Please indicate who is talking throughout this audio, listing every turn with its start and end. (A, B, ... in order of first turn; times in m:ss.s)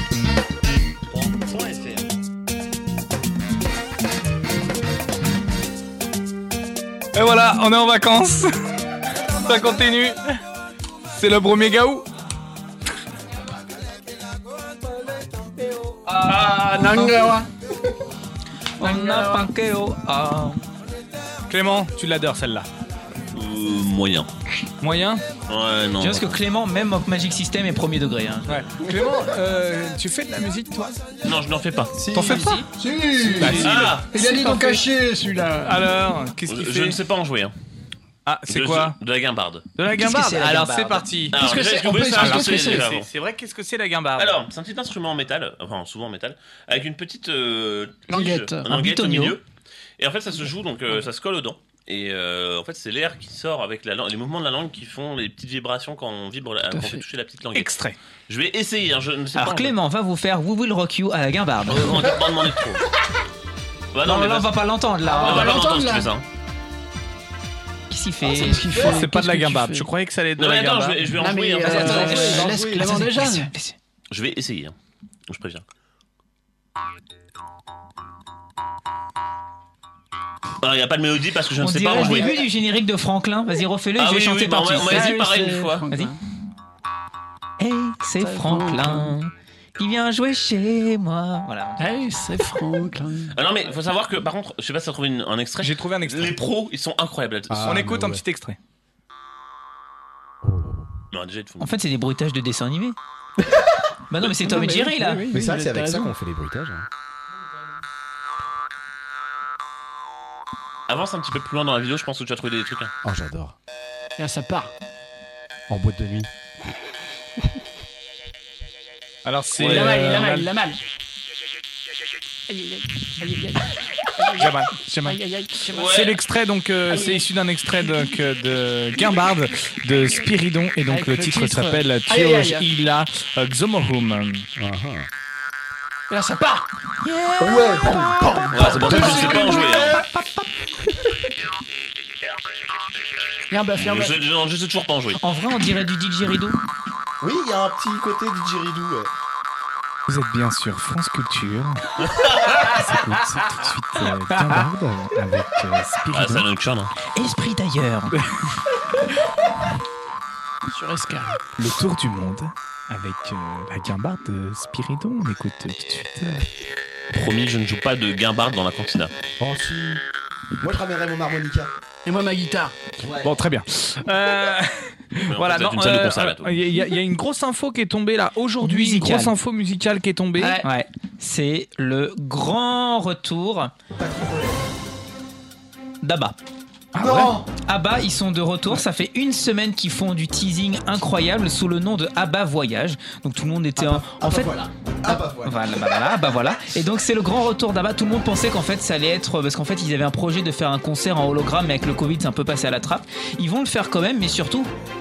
0:01.1-0:02.0 A
0:07.2-0:08.5 B
0:09.4-0:10.4 B
0:11.1-0:12.1 B
0:16.1-0:17.5 C
0:18.8-0:19.5 C
0:18.8-0:20.6 D
0:21.5-0:22.7 B
0:23.3-0:24.3 A
0:24.8-0:25.2 B
0:25.5-0:26.4 A
0:26.0-0:28.6 D
0:28.5-0:31.0 B
0:31.2-0:32.0 A
0:32.0-0:32.6 E
0:32.1-0:32.6 B
0:32.3-0:32.5 D
0:32.7-0:35.8 C
0:33.4-0:34.8 B
0:33.5-0:34.1 A
0:35.6-0:37.0 B
0:36.5-0:37.5 A
0:38.3-0:39.0 B
0:38.5-0:39.6 A
0:39.8-0:41.4 B
0:39.9-0:41.3 D
0:41.3-0:42.9 C
0:41.3-0:43.1 A
0:42.0-0:44.4 B
0:44.2-0:49.4 A
0:48.1-0:48.7 C
0:48.7-0:49.4 D
0:50.0-0:57.8 A
0:56.7-0:57.0 C
0:57.5-0:58.0 B
0:58.3-0:59.8 A
0:59.4-1:02.1 D
1:01.6-1:02.8 A
1:03.9-1:06.2 A
1:04.0-1:05.6 D
1:05.0-1:06.1 C
1:07.9-1:08.8 D
1:08.2-1:09.1 E
1:08.3-1:09.9 C
1:08.8-1:11.1 B
1:10.4-1:12.5 A
1:11.2-1:13.5 C
1:11.6-1:13.8 D
1:12.0-1:13.0 E
1:14.1-1:14.7 A
1:15.3-1:15.6 A
1:20.6-1:22.4 A
1:21.6-1:25.2 D
1:24.0-1:25.9 A
1:24.8-1:26.2 C
1:27.6-1:31.9 D
1:28.2-1:29.1 C
1:31.8-1:33.4 C
1:33.3-1:37.8 A
1:35.6-1:36.4 B
1:37.5-1:38.2 E
1:37.6-1:38.6 B
1:40.4-1:40.9 E
1:41.1-1:41.7 A
1:41.6-1:43.0 D
1:44.1-1:45.3 D
1:44.4-1:46.1 C
1:45.3-1:46.9 E
1:50.9-1:52.9 A
1:53.0-1:53.6 E
1:54.2-1:54.7 C
1:55.7-1:56.3 E
1:59.2-2:00.5 B
1:59.6-2:00.8 C
2:02.5-2:06.0 C
2:04.4-2:05.2 B
2:05.7-2:06.2 A
2:05.7-2:14.5 B
2:06.9-2:07.2 C
2:10.9-2:12.7 C
2:14.6-2:15.1 E
2:16.1-2:16.7 C
2:17.4-2:19.7 E
2:17.8-2:20.0 C
2:18.5-2:20.0 A
2:23.5-2:24.2 C
2:23.8-2:25.2 A
2:25.2-2:26.6 D
2:27.2-2:29.1 E
2:30.1-2:31.8 B
2:32.0-2:32.8 A
2:32.7-2:36.5 B
2:34.4-2:34.6 D
2:36.1-2:36.9 A
2:37.1-2:38.2 D
2:40.6-2:41.4 C
2:41.6-2:46.5 B
2:47.1-2:49.1 A
2:49.4-2:50.0 E
2:50.6-2:51.7 E
2:52.0-2:52.8 C
2:53.0-2:53.4 E
2:53.2-3:00.6 B
2:55.3-2:56.7 A
2:58.6-2:59.3 D
3:00.4-3:00.7 C
3:00.6-3:03.7 D
3:03.9-3:04.7 E
3:06.0-3:06.4 D
3:06.9-3:14.5 D
3:07.0-3:07.5 E
3:13.8-3:15.6 E
3:15.0-3:24.7 D